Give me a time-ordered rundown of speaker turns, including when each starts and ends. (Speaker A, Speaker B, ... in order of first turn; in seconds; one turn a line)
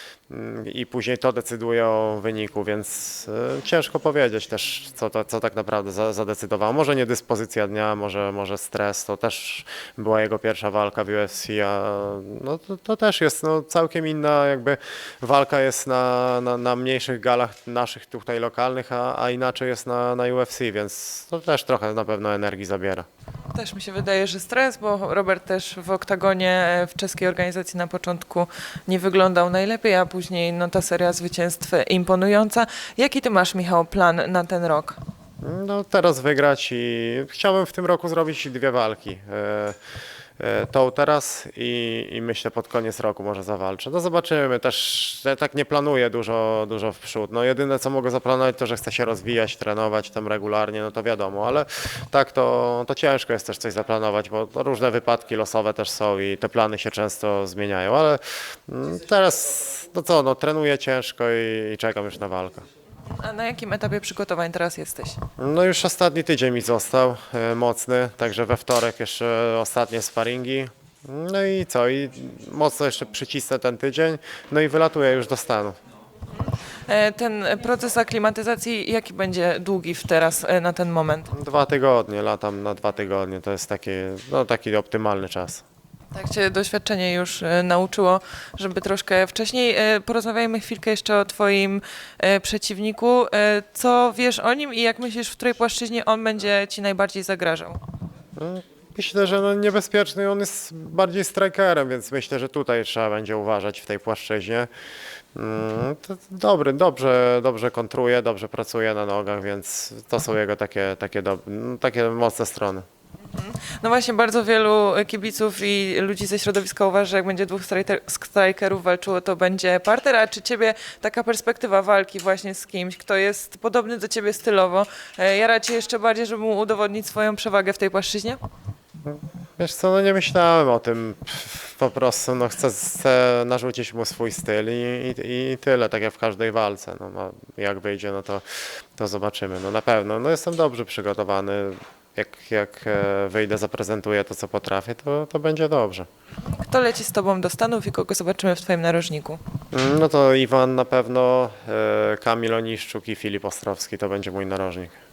Speaker A: 0.3-23.1
Speaker B: 23.5-35.0
Speaker A: 35.4-39.8
Speaker A: 40.4-62.6
Speaker B: 63.1-65.2
Speaker A: 65.4-75.8
Speaker B: 76.9-81.3
Speaker A: 81.3-85.6
Speaker B: 86.1-97.8
Speaker A: 98.4-104.7
Speaker A: 105.3-112.8
Speaker B: 113.3-128.4
Speaker A: 129.1-138.4
Speaker A: 139.0-146.1
Speaker B: 146.5-149.4
Speaker A: 149.7-155.0